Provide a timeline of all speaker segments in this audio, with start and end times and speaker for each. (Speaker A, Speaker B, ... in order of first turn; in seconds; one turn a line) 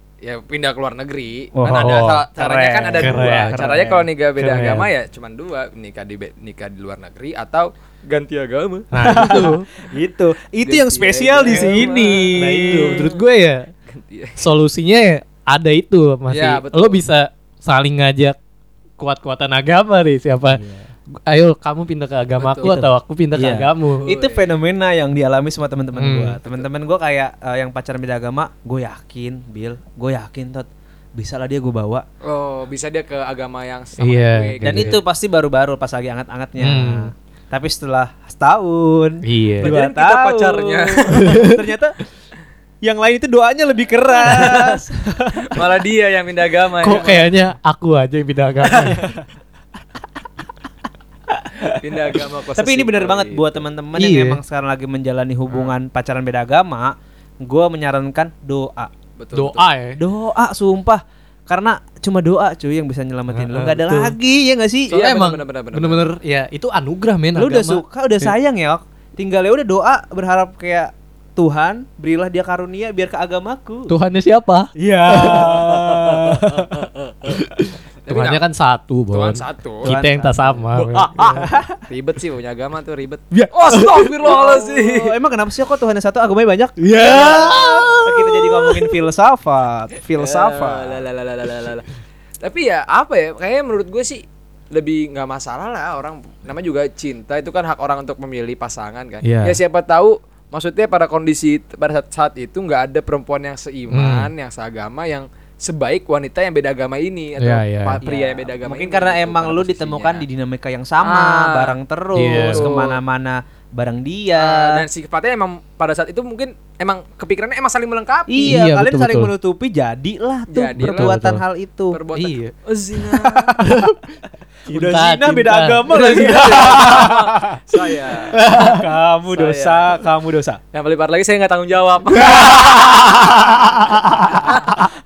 Speaker A: 0.2-9.5
Speaker B: 1.6-4.1
Speaker C: 1.6-2.2
Speaker C: 3.0-3.7
Speaker C: 4.4-4.9
Speaker C: 8.9-9.6
Speaker B: 9.0-13.1
Speaker A: 10.6-13.2
Speaker C: 11.5-13.7
Speaker A: 13.9-14.4
Speaker C: 14.4-18.4
Speaker A: 16.3-17.0
Speaker C: 19.0-20.6
Speaker B: 20.5-20.9
Speaker C: 21.3-24.0
Speaker A: 22.4-22.8
Speaker B: 22.6-32.0
Speaker A: 24.0-24.5
Speaker C: 25.9-26.4
Speaker A: 32.2-35.0
Speaker C: 34.0-35.0
Speaker B: 34.6-42.0
Speaker C: 36.6-37.1
Speaker C: 39.2-39.8
Speaker A: 39.6-41.4
Speaker C: 41.2-41.6
Speaker B: 42.8-45.6
Speaker A: 45.5-47.4
Speaker C: 46.8-49.1
Speaker A: 48.6-49.1
Speaker A: 51.7-53.6
Speaker B: 52.6-58.9
Speaker C: 54.0-54.4
Speaker A: 55.5-55.8
Speaker A: 59.2-59.6
Speaker C: 59.3-60.0
Speaker B: 60.0-64.9
Speaker C: 63.3-64.1
Speaker A: 64.9-66.0
Speaker C: 64.9-68.3
Speaker B: 67.3-73.9
Speaker C: 73.9-76.4
Speaker B: 74.8-76.7
Speaker A: 76.5-77.4
Speaker C: 77.3-81.6
Speaker A: 78.1-78.4
Speaker A: 79.1-79.9
Speaker B: 79.8-81.8
Speaker A: 80.7-85.1
Speaker B: 83.4-91.1
Speaker C: 86.8-89.0
Speaker A: 90.1-91.9
Speaker A: 92.4-110.2
Speaker C: 99.2-99.6
Speaker C: 103.9-104.3
Speaker C: 107.4-108.0
Speaker B: 108.0-114.8
Speaker A: 111.0-111.8
Speaker C: 112.1-112.7
Speaker A: 112.5-113.0
Speaker A: 114.3-118.6
Speaker B: 118.3-122.0
Speaker C: 118.4-119.3
Speaker A: 120.5-121.2
Speaker C: 120.8-121.4
Speaker A: 121.9-123.5
Speaker C: 122.1-122.5
Speaker B: 123.1-123.8
Speaker C: 123.6-124.0
Speaker C: 124.7-126.8
Speaker B: 124.7-127.6
Speaker A: 125.9-128.4
Speaker C: 128.4-128.8
Speaker B: 128.4-130.6
Speaker A: 129.3-129.9
Speaker A: 130.7-132.8
Speaker C: 132.2-134.9
Speaker A: 134.3-134.6